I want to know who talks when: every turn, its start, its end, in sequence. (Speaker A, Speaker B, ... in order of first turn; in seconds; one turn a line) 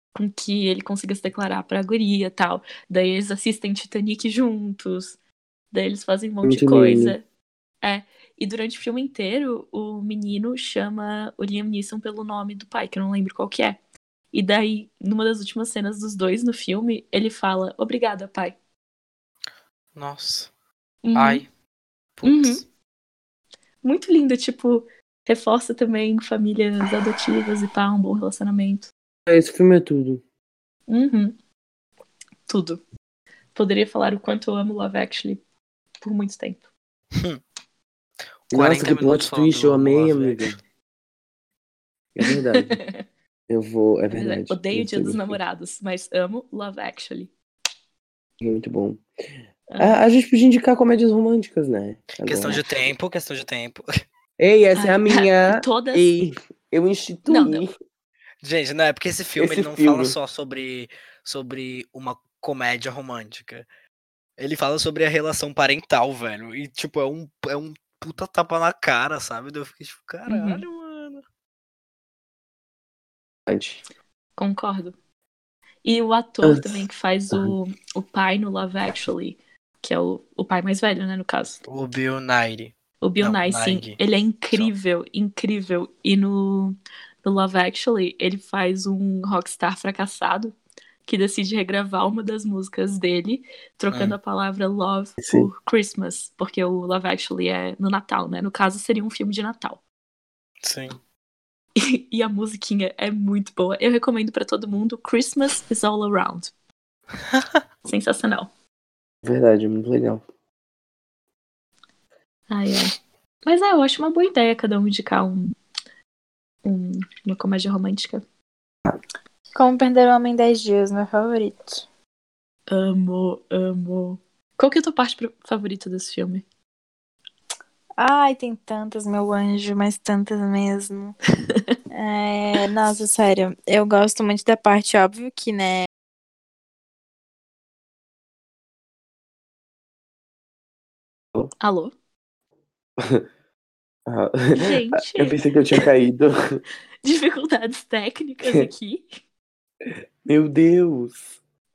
Speaker A: 0.1-5.2
Speaker A: 5.7-7.2
Speaker B: 6.4-7.2
Speaker A: 7.8-13.8
Speaker A: 14.3-18.5
Speaker C: 19.9-20.5
Speaker A: 21.0-21.4
Speaker C: 21.1-21.5
Speaker C: 22.2-22.6
Speaker A: 22.2-22.6
Speaker A: 23.8-28.9
Speaker B: 29.3-30.2
Speaker A: 30.9-31.4
Speaker A: 32.5-32.8
Speaker A: 33.5-35.4
Speaker A: 36.0-36.6
Speaker C: 38.5-40.5
Speaker B: 38.5-40.6
Speaker B: 42.1-42.8
Speaker A: 42.6-43.0
Speaker B: 43.5-45.4
Speaker A: 44.1-47.3
Speaker B: 48.4-49.0
Speaker A: 49.7-50.0
Speaker B: 49.8-52.7
Speaker C: 52.2-53.9
Speaker B: 54.4-57.7
Speaker A: 54.8-56.1
Speaker A: 57.3-57.6
Speaker C: 58.4-63.6
Speaker B: 59.4-60.1
Speaker C: 64.4-71.2
Speaker A: 70.3-70.6
Speaker B: 73.5-73.8
Speaker A: 74.4-75.0
Speaker A: 75.8-81.6
Speaker B: 76.4-76.8
Speaker C: 81.7-84.0
Speaker A: 83.0-99.8
Speaker B: 95.2-95.5
Speaker C: 100.6-101.0
Speaker A: 101.8-106.5
Speaker A: 107.8-108.5
Speaker B: 109.2-110.2
Speaker A: 112.5-112.9
Speaker A: 113.4-115.5
Speaker A: 116.6-118.2
Speaker D: 119.5-121.8
Speaker A: 122.7-126.4
Speaker D: 128.0-131.2
Speaker D: 131.9-135.9
Speaker A: 141.6-141.9
Speaker B: 143.0-143.2
Speaker B: 144.1-146.6
Speaker A: 144.5-145.9
Speaker A: 147.0-149.0
Speaker B: 149.8-151.2